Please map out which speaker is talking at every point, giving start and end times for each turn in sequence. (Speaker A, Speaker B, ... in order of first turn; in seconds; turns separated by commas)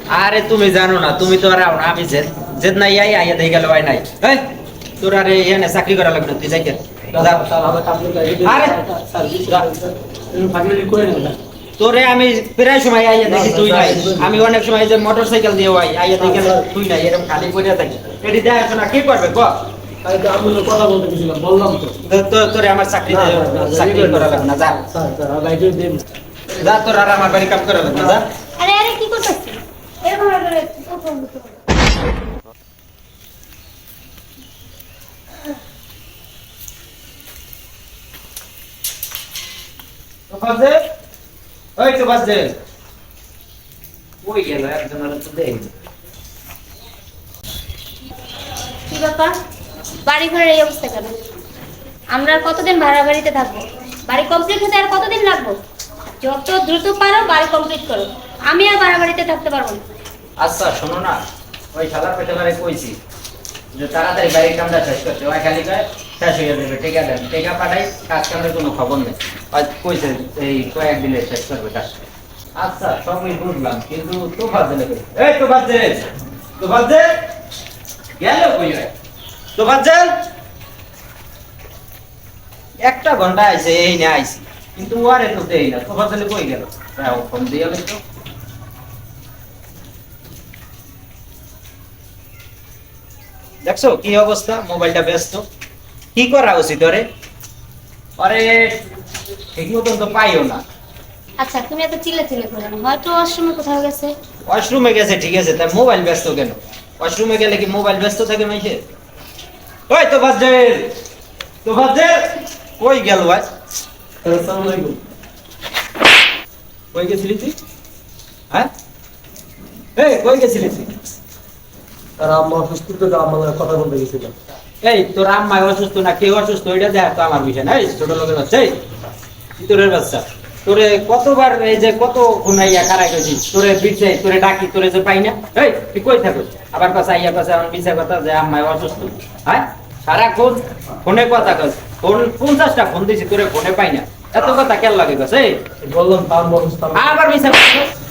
Speaker A: 0.1-4.5, Speaker A: 5.0-7.5, Speaker B: 7.1-11.4, Speaker A: 8.4-8.8, Speaker A: 11.8-19.5, Speaker B: 13.3-14.4, Speaker B: 16.2-16.6, Speaker B: 20.0-22.0, Speaker A: 22.1-24.8, Speaker B: 23.1-26.1, Speaker A: 26.5-28.3, Speaker C: 28.6-31.6, Speaker A: 40.3-40.8, Speaker A: 41.8-42.6, Speaker A: 44.2-45.7, Speaker C: 48.9-49.4, Speaker C: 50.0-51.1, Speaker C: 52.1-55.6, Speaker C: 56.2-59.8, Speaker A: 60.4-61.2, Speaker A: 61.7-63.0, Speaker A: 63.7-72.0, Speaker A: 72.6-76.1, Speaker A: 76.6-77.1, Speaker A: 78.2-78.9, Speaker A: 79.6-80.1, Speaker A: 82.8-88.0, Speaker A: 93.6-95.5, Speaker A: 96.2-97.1, Speaker A: 98.2-98.8, Speaker A: 99.5-100.6, Speaker C: 101.4-104.2, Speaker A: 104.5-108.8, Speaker A: 109.9-110.9, Speaker A: 111.6-113.5, Speaker B: 114.2-115.0, Speaker A: 116.9-117.6, Speaker A: 120.0-120.9, Speaker B: 122.2-124.3, Speaker A: 124.8-128.8, Speaker A: 129.6-145.6, Speaker B: 145.8-147.2, Speaker A: 146.9-147.9